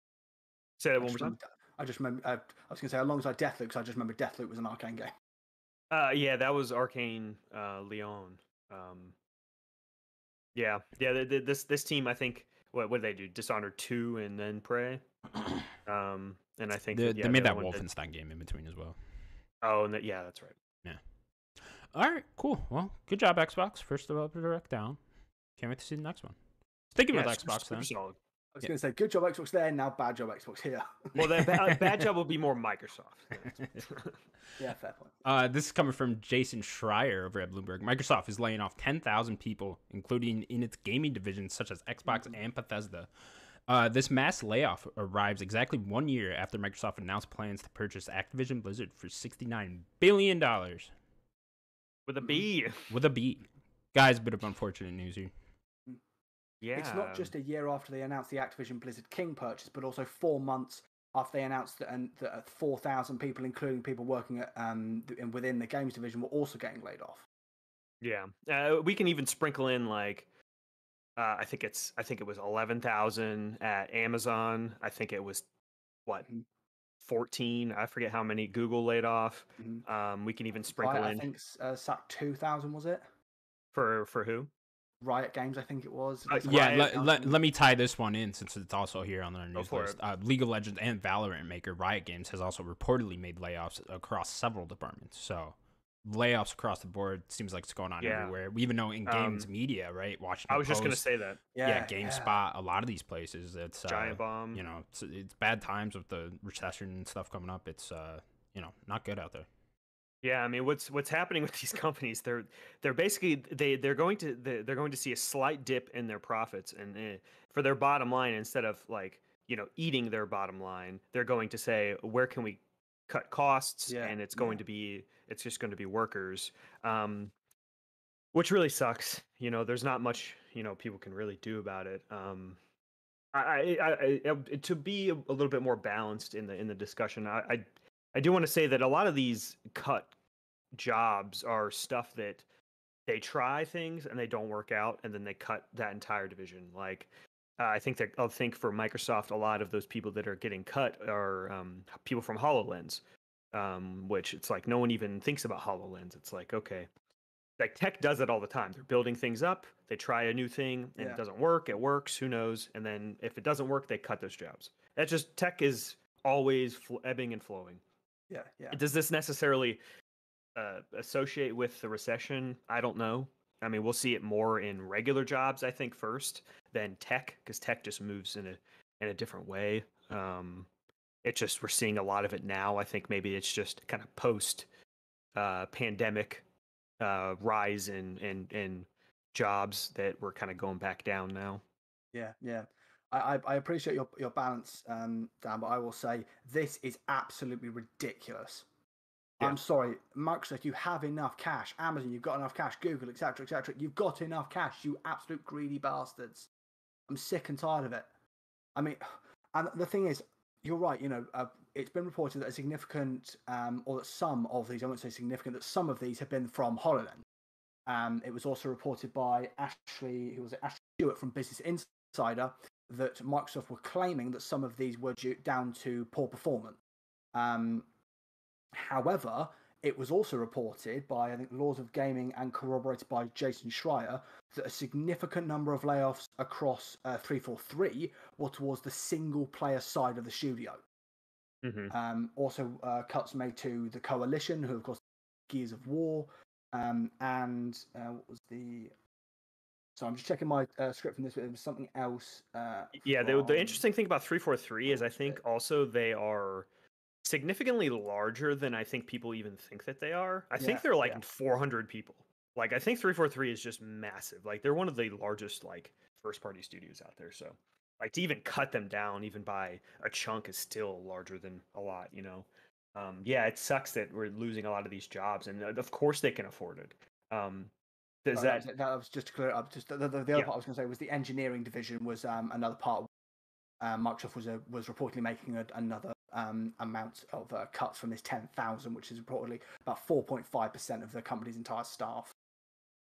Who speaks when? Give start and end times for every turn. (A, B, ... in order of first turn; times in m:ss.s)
0:00.8-0:01.4 A
0:01.0-0:05.1 B
0:05.9-0:09.1 A
0:10.6-0:15.0 A
0:15.8-0:17.8 A
0:16.9-0:19.0 C
0:19.6-0:20.6 A
0:21.6-0:25.0 C
0:25.6-0:26.4 C
0:26.9-0:27.9 C
0:27.1-0:28.2 A
0:28.5-0:31.5 B
0:31.1-0:34.2 A
0:31.5-0:32.0 C
0:34.6-0:35.2 B
0:35.2-0:43.1 C
0:43.7-0:50.9 C
0:52.1-0:52.9 A
0:52.9-0:55.3 C
0:56.6-0:57.3 A
0:56.8-1:07.3 B
1:08.0-1:10.3 A
1:11.2-1:15.4 A
1:17.0-1:21.3 A
1:19.6-1:19.8 B
1:20.8-1:23.0 B
1:23.7-1:24.5 A
1:25.0-1:27.4 B
1:26.3-1:26.9 A
1:26.4-1:41.0 C
1:29.6-1:30.0 A
1:38.0-1:38.4 A
1:39.1-1:39.5 A
1:40.5-1:41.4 A
1:41.6-1:42.4 B
1:41.6-1:49.5 C
1:43.9-1:44.6 A
1:50.2-2:07.3 A
2:03.9-2:04.6 B
2:08.3-2:12.6 A
2:13.3-2:20.1 A
2:20.7-2:22.4 A
2:23.1-2:27.1 A
2:27.6-2:33.0 A
2:33.5-2:36.9 A
2:37.6-2:47.8 A
2:48.3-2:48.8 B
2:48.7-2:49.8 A
2:50.6-3:00.7 A
3:01.2-3:04.7 A
3:05.4-3:06.4 A
3:07.0-3:11.6 A
3:12.1-3:18.6 B
3:19.4-3:26.5 B
3:27.1-3:28.1 B
3:28.8-3:37.2 B
3:37.9-3:46.8 B
3:47.3-3:47.9 B
3:48.7-4:00.8 B
4:01.6-4:01.9 A
4:01.9-4:08.9 B
4:10.0-4:13.8 B
4:13.0-4:16.7 A
4:14.9-4:15.4 B
4:17.2-4:37.7 A
4:20.6-4:21.2 B
4:38.2-4:38.7 A
4:38.4-4:43.1 B
4:43.8-4:52.3 B